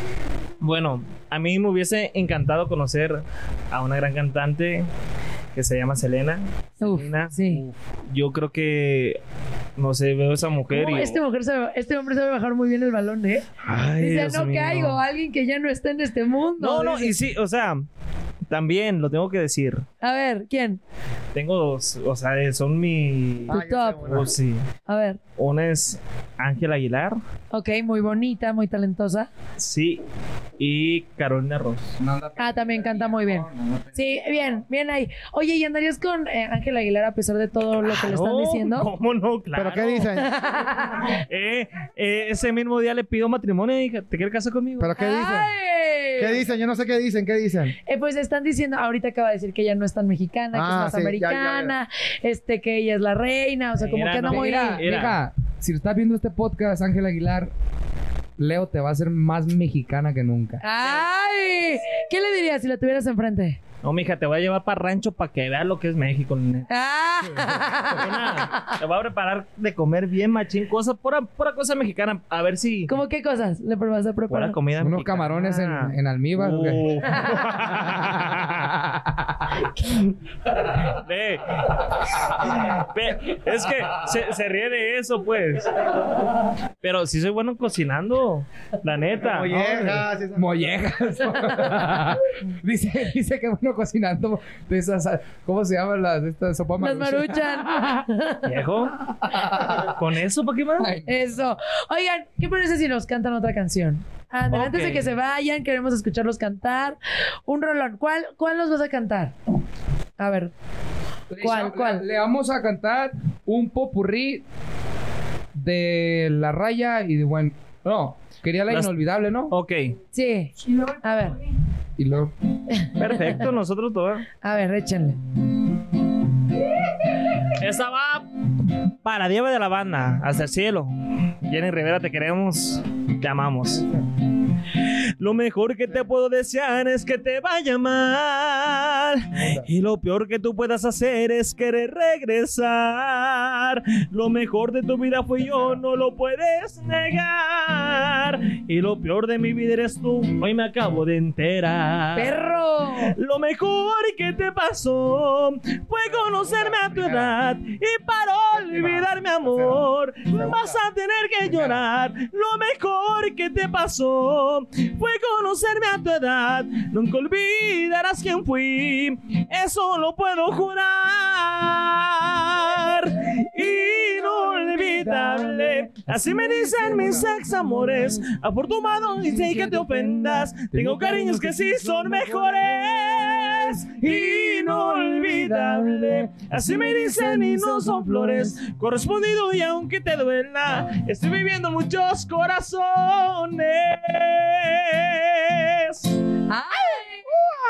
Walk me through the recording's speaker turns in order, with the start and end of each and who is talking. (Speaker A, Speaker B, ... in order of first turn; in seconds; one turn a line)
Speaker A: 0.6-4.9
Speaker A: 5.5-9.2
Speaker B: 6.8-7.6
Speaker A: 9.8-11.2
Speaker B: 10.7-13.5
Speaker A: 13.6-15.0
Speaker B: 14.0-17.1
Speaker A: 16.6-17.9
Speaker A: 18.5-19.9
Speaker B: 20.0-20.8
Speaker A: 21.4-24.7
Speaker C: 23.5-24.3
Speaker B: 23.5-24.0
Speaker B: 24.9-25.2
Speaker A: 25.4-27.2
Speaker B: 27.5-29.3
Speaker A: 29.6-30.0
Speaker A: 30.6-31.9
Speaker D: 32.0-34.5
Speaker B: 32.4-38.9
Speaker A: 37.9-40.1
Speaker C: 39.5-40.3
Speaker B: 40.2-41.2
Speaker A: 41.0-44.9
Speaker C: 44.8-45.5
Speaker B: 45.0-46.4
Speaker C: 46.2-47.8
Speaker B: 47.9-54.8
Speaker C: 50.5-51.8
Speaker A: 53.8-55.2
Speaker D: 54.3-57.5
Speaker D: 58.4-60.6
Speaker B: 60.6-63.6
Speaker A: 60.8-61.1
Speaker A: 63.8-66.7
Speaker B: 66.7-68.7
Speaker A: 67.4-72.9
Speaker B: 72.9-74.6
Speaker A: 74.3-78.7
Speaker D: 74.8-76.9
Speaker D: 78.1-79.4
Speaker A: 79.9-86.0
Speaker A: 86.8-89.6
Speaker C: 89.2-90.7
Speaker D: 89.6-98.1
Speaker B: 96.8-98.5
Speaker A: 98.4-99.0
Speaker D: 99.2-99.9
Speaker A: 99.7-100.9
Speaker D: 100.8-101.2
Speaker B: 101.1-109.3
Speaker A: 104.5-105.1
Speaker B: 110.2-110.5
Speaker D: 111.3-114.4
Speaker B: 111.4-112.0
Speaker D: 115.5-119.5
Speaker A: 119.5-120.0
Speaker B: 120.1-121.4
Speaker D: 122.0-122.3
Speaker A: 123.0-124.3
Speaker B: 124.4-125.2
Speaker A: 127.5-128.3
Speaker A: 129.0-130.9
Speaker A: 131.4-133.8
Speaker C: 133.8-134.0
Speaker A: 135.2-152.4
Speaker B: 152.2-153.1
Speaker A: 153.0-196.1
Speaker C: 156.2-157.4
Speaker C: 158.5-160.8
Speaker D: 176.1-176.3
Speaker D: 180.7-182.5
Speaker B: 196.5-197.3